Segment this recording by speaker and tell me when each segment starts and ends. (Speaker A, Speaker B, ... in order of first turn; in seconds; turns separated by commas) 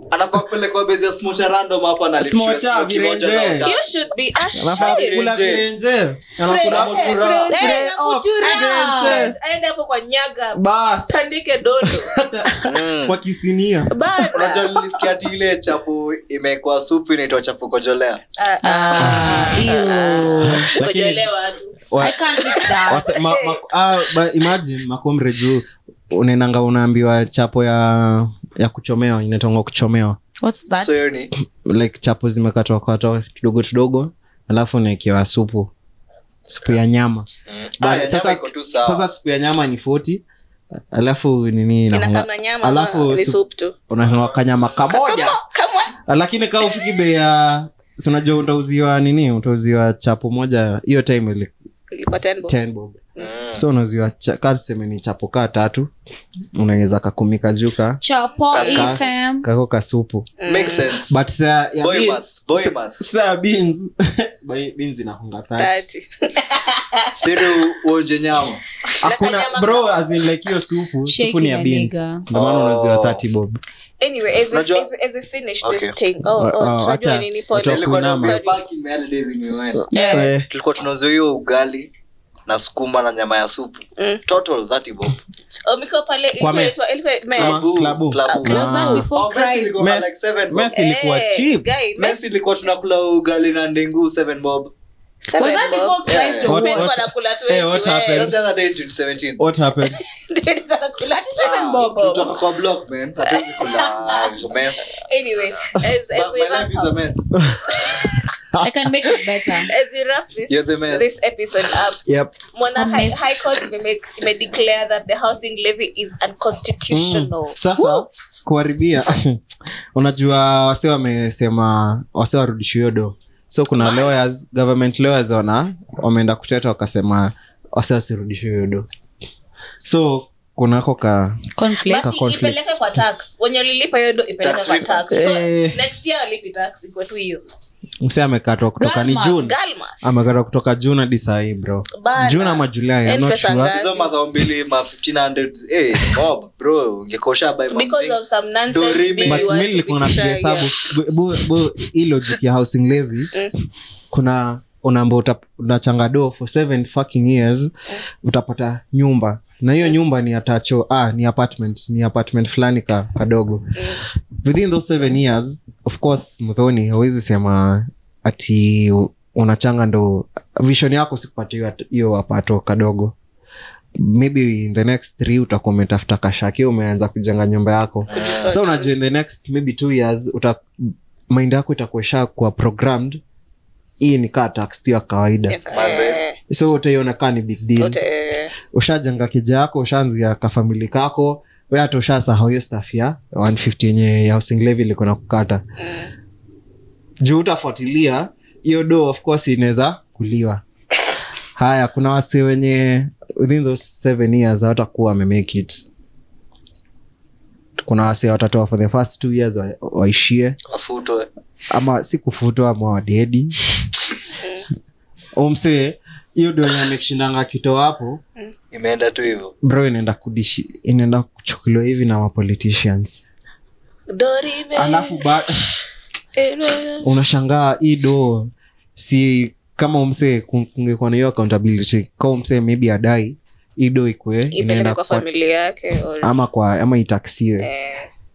Speaker A: 0.1-3.8, Speaker B: 2.2-3.7, Speaker C: 3.6-5.2, Speaker B: 4.5-9.3, Speaker A: 4.7-5.6, Speaker C: 6.4-7.9, Speaker A: 6.7-7.5, Speaker D: 7.5-9.3, Speaker C: 8.4-12.2, Speaker B: 10.6-13.9, Speaker A: 12.6-13.2, Speaker C: 13.9-15.1, Speaker A: 14.3-18.2, Speaker C: 18.4-21.8, Speaker D: 18.6-20.7, Speaker B: 20.4-21.3, Speaker B: 21.9-22.2, Speaker D: 22.0-23.2, Speaker C: 22.5-23.6, Speaker B: 22.9-30.2, Speaker D: 30.4-31.0, Speaker A: 30.7-31.3, Speaker B: 31.6-35.7, Speaker B: 36.5-37.3, Speaker A: 37.5-39.0, Speaker B: 37.8-40.2, Speaker B: 40.9-45.4, Speaker C: 41.9-43.8, Speaker C: 44.9-46.0, Speaker B: 46.1-51.5, Speaker C: 51.9-52.6, Speaker B: 52.5-53.0, Speaker A: 53.2-53.6, Speaker B: 53.5-55.9, Speaker B: 56.5-58.0, Speaker D: 58.0-59.5, Speaker A: 58.5-59.0, Speaker B: 58.6-60.3, Speaker C: 60.4-60.9, Speaker A: 60.5-61.2, Speaker B: 61.1-65.9, Speaker A: 61.8-63.0, Speaker C: 65.6-67.5, Speaker A: 67.2-68.6, Speaker C: 68.9-70.1, Speaker B: 69.0-73.6, Speaker D: 71.0-72.3, Speaker A: 72.3-73.2, Speaker C: 74.0-78.6, Speaker A: 74.5-74.9, Speaker A: 75.6-75.9, Speaker B: 76.4-78.4, Speaker A: 77.6-81.9, Speaker B: 79.8-80.5, Speaker D: 79.9-80.3, Speaker A: 82.5-85.1, Speaker C: 84.0-84.2, Speaker C: 85.7-88.5, Speaker B: 86.4-89.1, Speaker A: 87.3-90.7, Speaker D: 88.4-90.0, Speaker B: 89.8-91.7, Speaker C: 90.7-92.4, Speaker A: 92.0-94.7, Speaker C: 95.3-98.4, Speaker D: 95.4-96.9, Speaker A: 96.1-96.5, Speaker B: 96.5-98.4, Speaker A: 98.1-99.4, Speaker B: 99.4-100.0, Speaker C: 99.9-102.3, Speaker D: 101.1-102.2, Speaker A: 101.4-105.0, Speaker C: 103.2-107.0, Speaker A: 106.1-107.3, Speaker B: 107.4-108.7, Speaker D: 108.6-109.7, Speaker C: 109.7-112.0, Speaker A: 110.5-111.2, Speaker B: 112.0-112.4, Speaker C: 112.5-117.6, Speaker D: 112.7-113.3, Speaker B: 116.9-119.4, Speaker B: 119.9-128.9, Speaker C: 123.8-124.1, Speaker B: 129.8-131.5, Speaker D: 131.6-132.1, Speaker C: 131.9-137.4, Speaker B: 132.0-132.6, Speaker A: 134.4-135.1, Speaker B: 135.1-135.8, Speaker B: 138.0-143.7, Speaker D: 138.8-139.5, Speaker C: 139.4-140.0, Speaker C: 141.9-144.1, Speaker A: 143.7-148.2, Speaker C: 147.7-150.7, Speaker A: 148.7-149.5, Speaker B: 149.2-153.3, Speaker B: 154.1-173.1, Speaker B: 173.9-183.2, Speaker A: 178.1-178.6, Speaker C: 178.1-178.9, Speaker B: 184.0-185.6, Speaker C: 185.5-186.4, Speaker A: 185.7-186.2, Speaker B: 186.5-188.0, Speaker C: 187.8-188.5, Speaker B: 188.7-195.6, Speaker C: 195.8-196.1, Speaker B: 197.2-200.6, Speaker B: 201.6-205.8, Speaker B: 207.8-210.6, Speaker A: 210.7-211.3, Speaker B: 211.7-213.6, Speaker B: 215.4-218.2, Speaker A: 218.7-219.6, Speaker B: 219.6-223.2, Speaker C: 224.1-225.3, Speaker B: 224.7-225.7, Speaker C: 226.4-227.1, Speaker B: 227.0-235.2, Speaker C: 234.5-236.3, Speaker B: 236.2-237.7, Speaker C: 237.6-238.1